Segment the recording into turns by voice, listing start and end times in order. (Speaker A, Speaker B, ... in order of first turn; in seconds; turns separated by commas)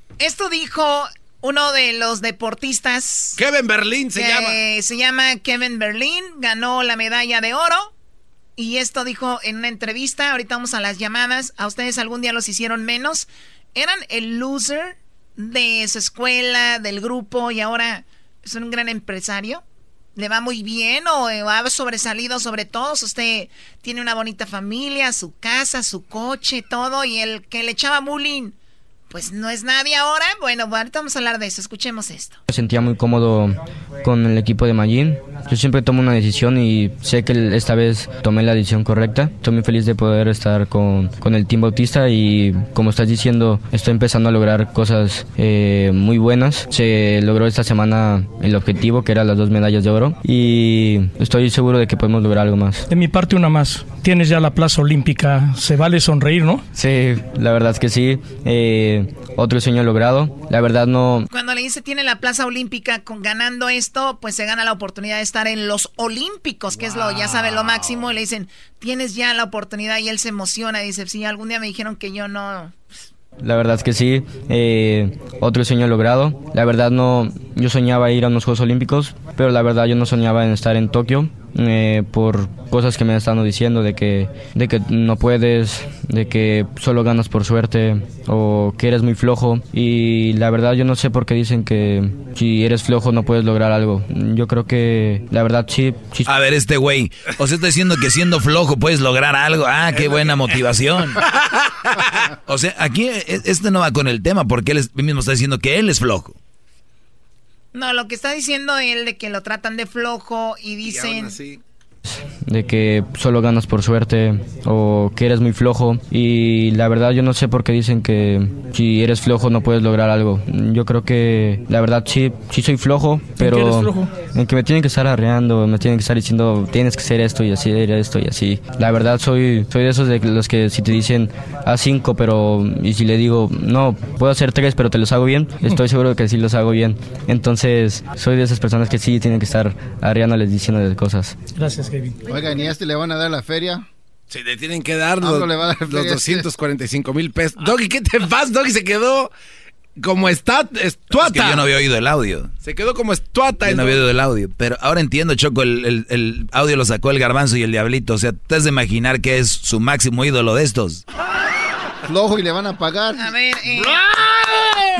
Speaker A: 0.2-3.4, Speaker B: 3.4-4.6, Speaker A: 4.1-7.9, Speaker A: 8.6-19.6, Speaker A: 20.1-28.5, Speaker A: 29.1-32.4, Speaker C: 32.5-52.8, Speaker D: 52.9-56.6, Speaker C: 56.7-61.3, Speaker A: 61.3-72.8, Speaker E: 66.7-68.1, Speaker C: 73.4-96.3, Speaker F: 96.2-101.2, Speaker B: 99.9-100.6, Speaker B: 101.2-102.2, Speaker F: 102.5-106.4, Speaker A: 107.7-111.4, Speaker B: 110.8-111.6, Speaker C: 112.5-141.3, Speaker D: 123.6-124.1, Speaker D: 141.6-142.1, Speaker E: 142.3-143.8, Speaker B: 144.3-149.3, Speaker E: 145.2-146.5, Speaker B: 150.0-151.7, Speaker F: 151.1-152.5, Speaker B: 152.6-154.0, Speaker F: 153.7-161.0, Speaker E: 162.0-163.3, Speaker A: 163.2-164.4